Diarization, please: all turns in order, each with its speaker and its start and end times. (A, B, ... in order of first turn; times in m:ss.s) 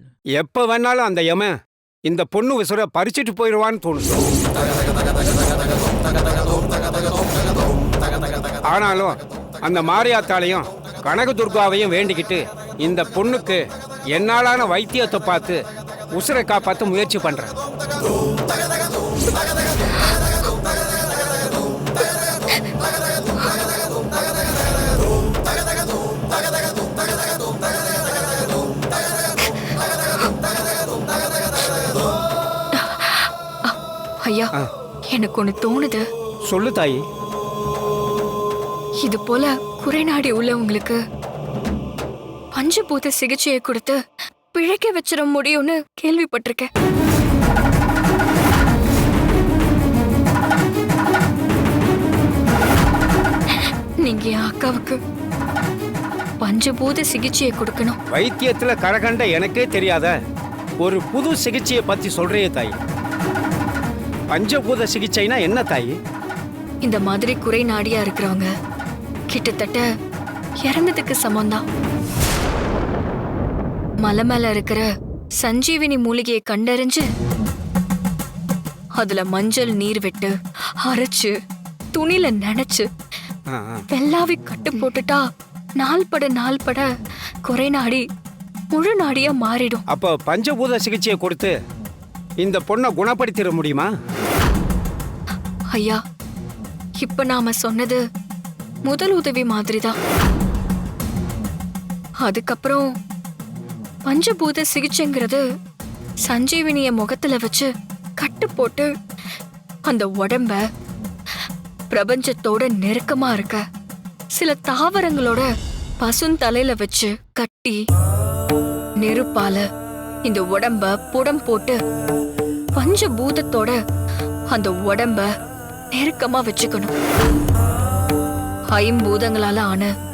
0:00.4-0:01.5 A
0:02.1-0:04.2 A
0:08.7-0:13.6 A
0:14.1-0:15.6 A
0:16.1-0:17.5 A
0:32.7-0:34.5 B
0:35.1-0:36.0 B
0:36.5-0:37.0 A
0:39.0-0:41.0 B
0:42.5-0:44.0 B
0:44.5-0:46.7 B
0:53.5-0:55.0 B
0:56.4-0:58.0 B
0:58.1-1:00.1 A
1:00.8-1:02.7 A
1:04.3-1:05.9 A
1:06.8-1:08.5 B
1:09.3-1:09.8 B
1:10.6-1:11.6 B
1:14.0-1:14.9 B
1:15.4-1:17.1 B
1:19.0-1:21.3 B
1:21.9-1:22.9 B
1:23.5-1:23.8 A
1:23.9-1:25.2 B
1:25.8-1:26.9 B
1:27.4-1:28.0 B
1:28.7-1:29.8 B
1:29.9-1:31.5 A
1:32.4-1:33.9 A
1:35.7-1:36.0 B
1:37.0-1:38.0 B
1:38.8-1:39.9 B
1:42.2-1:42.9 B
1:44.0-1:45.4 B
1:46.2-1:48.9 B
1:49.9-1:50.6 B
1:51.9-1:53.6 B
1:54.3-1:57.8 B
1:59.0-1:59.6 B
2:00.2-2:01.8 B
2:02.7-2:03.8 B
2:04.5-2:05.3 B
2:05.9-2:06.9 B
2:08.7-2:09.9 B